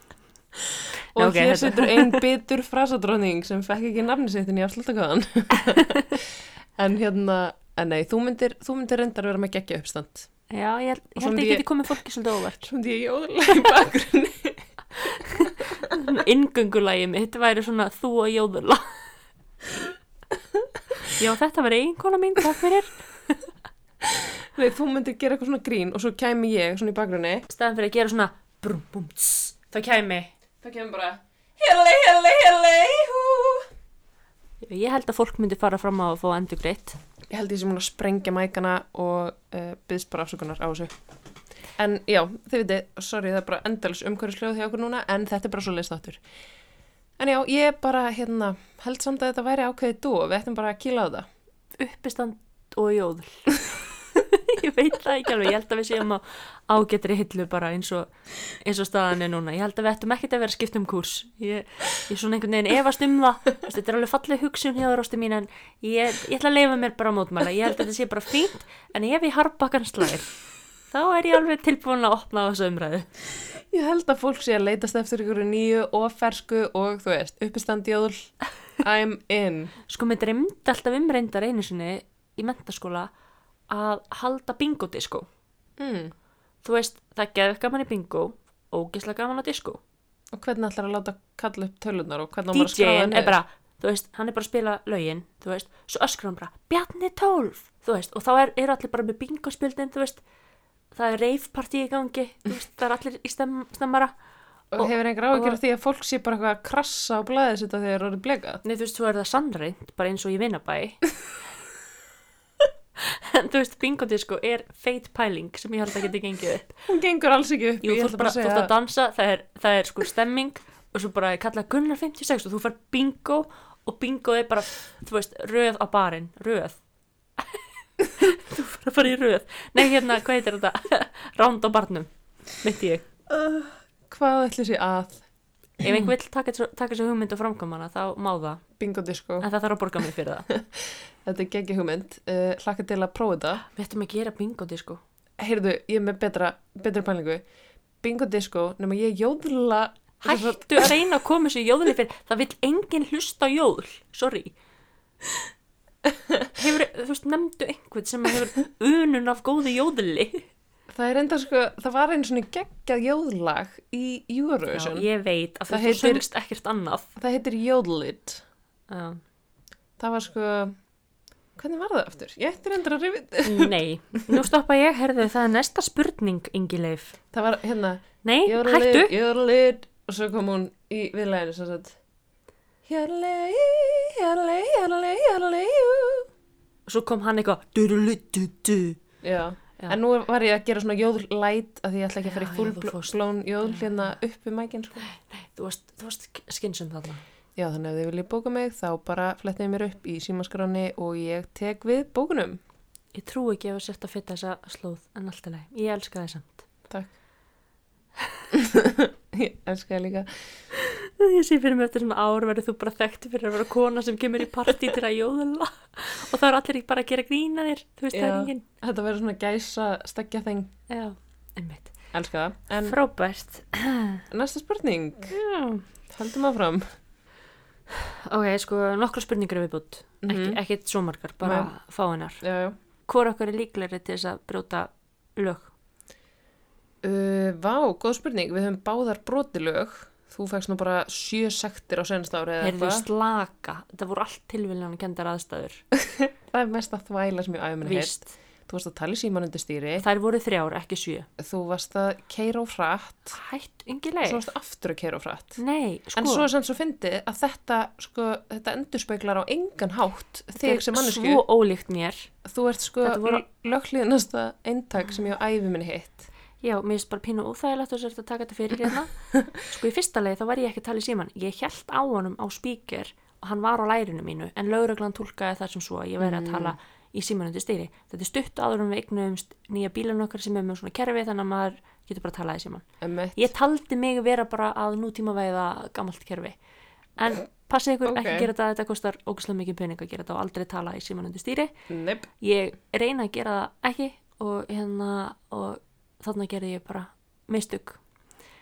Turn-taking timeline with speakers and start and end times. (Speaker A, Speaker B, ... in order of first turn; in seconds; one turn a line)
Speaker A: 0.7-10.3
Speaker B: 1.1-2.2
Speaker B: 10.5-12.7
Speaker A: 11.2-11.7
Speaker A: 12.7-15.9
Speaker B: 15.0-18.9
Speaker B: 21.1-23.4
Speaker A: 24.0-27.5
Speaker B: 27.5-30.3
Speaker A: 30.6-33.7
Speaker B: 34.6-37.0
Speaker A: 37.3-40.9
Speaker A: 41.8-46.2
Speaker A: 47.2-51.3
Speaker B: 51.8-70.3
Speaker B: 70.9-73.1
Speaker A: 73.6-79.7
Speaker B: 79.9-83.1
Speaker B: 83.7-85.2
Speaker A: 85.8-86.1
Speaker B: 86.6-89.8
Speaker A: 90.3-93.4
Speaker B: 92.5-100.2
Speaker B: 100.9-104.1
Speaker A: 104.7-108.6
Speaker B: 104.8-105.6
Speaker B: 108.6-111.0
Speaker B: 113.0-116.8
Speaker A: 116.9-118.7
Speaker B: 117.8-126.8
Speaker B: 128.1-133.1
Speaker A: 133.3-135.2
Speaker B: 135.8-138.6
Speaker A: 135.8-136.1
Speaker A: 138.8-139.5
Speaker B: 139.4-140.5
Speaker A: 140.5-143.6
Speaker B: 143.7-145.0
Speaker A: 145.4-147.4
Speaker A: 148.0-150.9
Speaker B: 150.2-154.5
Speaker B: 156.5-160.5
Speaker A: 160.9-165.1
Speaker B: 164.7-167.1
Speaker A: 165.7-166.2
Speaker A: 167.2-168.4
Speaker B: 168.9-169.2
Speaker A: 170.0-170.7
Speaker A: 171.6-174.4
Speaker B: 173.4-177.2
Speaker A: 177.3-182.0
Speaker B: 178.2-179.1
Speaker A: 182.8-186.3
Speaker B: 186.9-189.0
Speaker A: 189.2-195.1
Speaker B: 192.2-193.9
Speaker B: 195.0-197.2
Speaker A: 197.6-202.6
Speaker B: 203.1-206.6
Speaker A: 208.5-210.4
Speaker B: 210.7-218.6
Speaker A: 218.1-220.7
Speaker B: 220.9-221.9
Speaker A: 222.1-223.0
Speaker B: 222.8-224.2
Speaker A: 224.3-225.4
Speaker B: 225.3-225.8
Speaker A: 226.1-226.8
Speaker B: 227.9-232.4
Speaker A: 230.2-230.6
Speaker A: 231.4-231.7
Speaker A: 232.4-232.8
Speaker B: 233.1-235.7
Speaker A: 237.0-243.1
Speaker B: 242.6-245.8
Speaker A: 246.1-250.0
Speaker B: 247.8-248.3
Speaker B: 250.0-251.3
Speaker A: 251.4-253.3
Speaker B: 253.3-254.4
Speaker A: 254.2-255.6
Speaker B: 255.6-256.5
Speaker A: 256.1-261.4
Speaker B: 260.6-262.3
Speaker A: 262.4-266.2
Speaker B: 263.0-263.4
Speaker B: 266.6-282.8
Speaker A: 276.2-276.7
Speaker A: 283.0-283.5
Speaker B: 283.4-286.6
Speaker B: 287.2-291.7
Speaker A: 288.1-288.5
Speaker A: 291.9-292.3
Speaker B: 292.4-298.0